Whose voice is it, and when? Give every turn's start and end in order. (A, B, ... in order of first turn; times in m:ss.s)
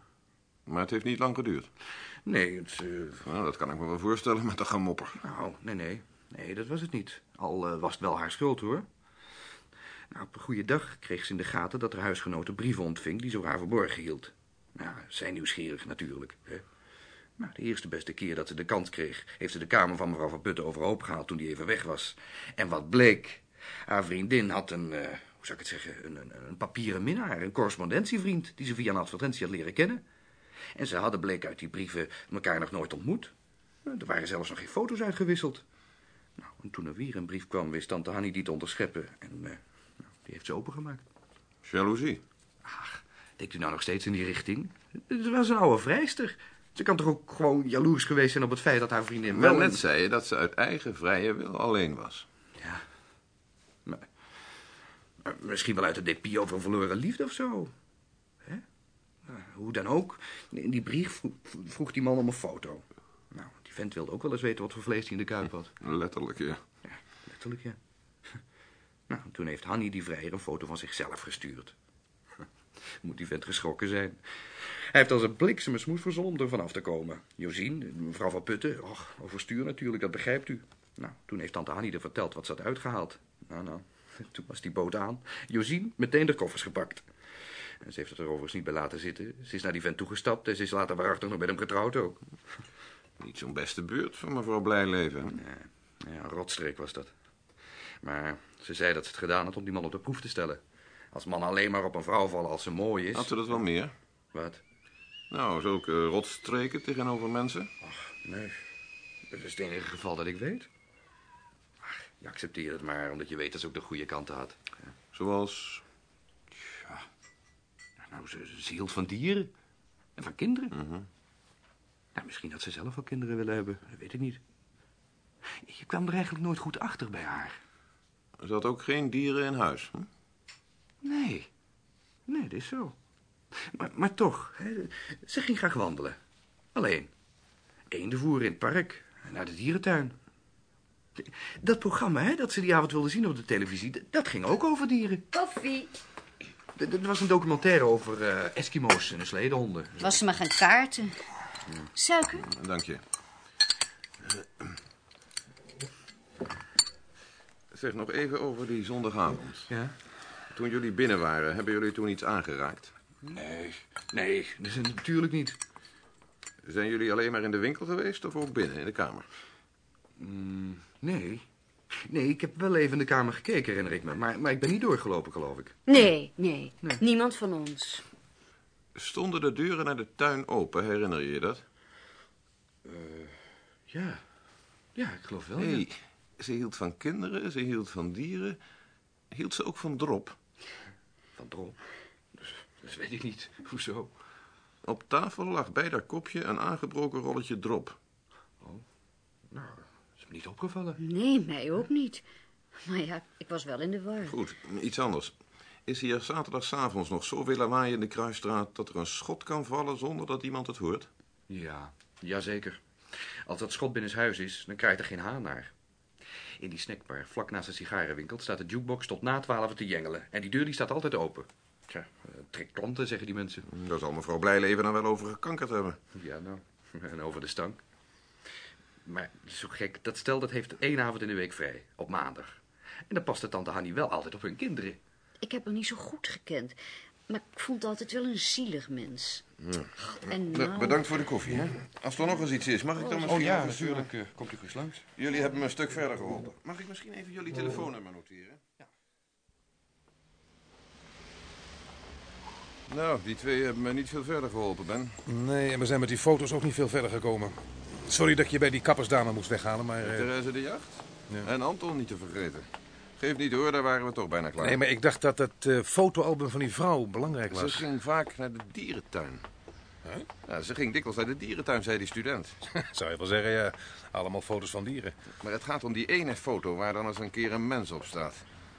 0:00.7-0:01.7 A
0:02.2-0:03.2 B
0:03.2-0:05.2 A
0:05.2-0:08.8 B
0:10.1-0:16.6 B
0:17.4-0:30.0 B
0:30.7-0:33.3 B
0:33.8-0:35.6 B
0:36.4-0:41.0 B
0:41.6-0:42.2 A
0:42.6-0:49.8 B
0:49.3-0:52.2 A
0:52.6-0:52.8 B
0:55.2-0:57.7 B
0:59.2-1:05.7 B
1:05.8-1:06.6 A
1:06.9-1:07.8 B
1:09.1-1:11.7 B
1:13.0-1:27.1 B
1:27.8-1:32.2 B
1:33.2-1:35.4 A
1:35.3-1:37.1 B
1:38.0-1:40.6 B
1:41.1-1:43.6 B
1:43.1-1:43.9 A
1:44.3-1:44.6 B
1:45.3-1:47.7 A
1:47.8-1:48.6 B
1:49.3-1:50.7 B
1:51.8-1:54.7 B
1:55.1-1:55.8 A
1:56.7-1:57.0 B
1:58.0-1:59.5 B
2:00.2-2:00.7 B
2:00.7-2:01.1 A
2:02.1-2:04.4 B
2:05.6-2:07.6 B
2:08.4-2:10.1 A
2:11.0-2:11.5 B
2:12.3-2:12.9 B
2:13.6-2:16.2 B
2:16.7-2:17.1 B
2:17.9-2:20.2 B
2:21.2-2:25.3 B
2:25.3-2:25.9 C
2:26.8-2:30.2 B
2:30.0-2:31.2 C
2:32.0-2:32.4 C
2:32.4-2:33.0 A
2:37.7-2:39.7 A
2:40.5-2:42.9 A
2:43.2-2:45.6 B
2:46.6-2:49.2 A
2:50.2-2:51.4 B
2:51.9-2:55.8 B
2:55.9-2:58.0 C
2:58.9-3:01.6 A
3:02.8-3:03.4 B
3:03.9-3:04.2 B
3:04.9-3:05.8 B
3:05.6-3:08.6 A
3:09.3-3:10.3 A
3:11.4-3:11.8 B
3:12.4-3:14.1 B
3:14.8-3:18.0 A
3:19.5-3:21.0 B
3:21.0-3:22.2 C
3:22.8-3:24.3 C
3:24.2-3:25.3 A
3:25.8-3:31.1 A
3:31.5-3:32.8 B
3:33.3-3:35.7 B
3:36.6-3:43.6 B
3:43.7-3:46.0 A
3:46.1-3:47.8 B
3:49.0-3:55.0 B
3:55.4-3:56.8 C
3:57.3-3:59.4 C
3:59.6-4:04.1 A
4:00.2-4:01.2 C
4:03.0-4:03.3 C
4:03.2-4:05.0 B
4:05.2-4:08.6 A
4:12.9-4:15.2 A
4:15.2-4:20.3 D
4:20.0-4:22.6 A
4:23.2-4:24.8 A
4:24.6-4:27.8 D
4:27.5-4:29.4 A
4:30.4-4:32.6 A
4:32.7-4:35.1 D
4:35.4-4:38.4 A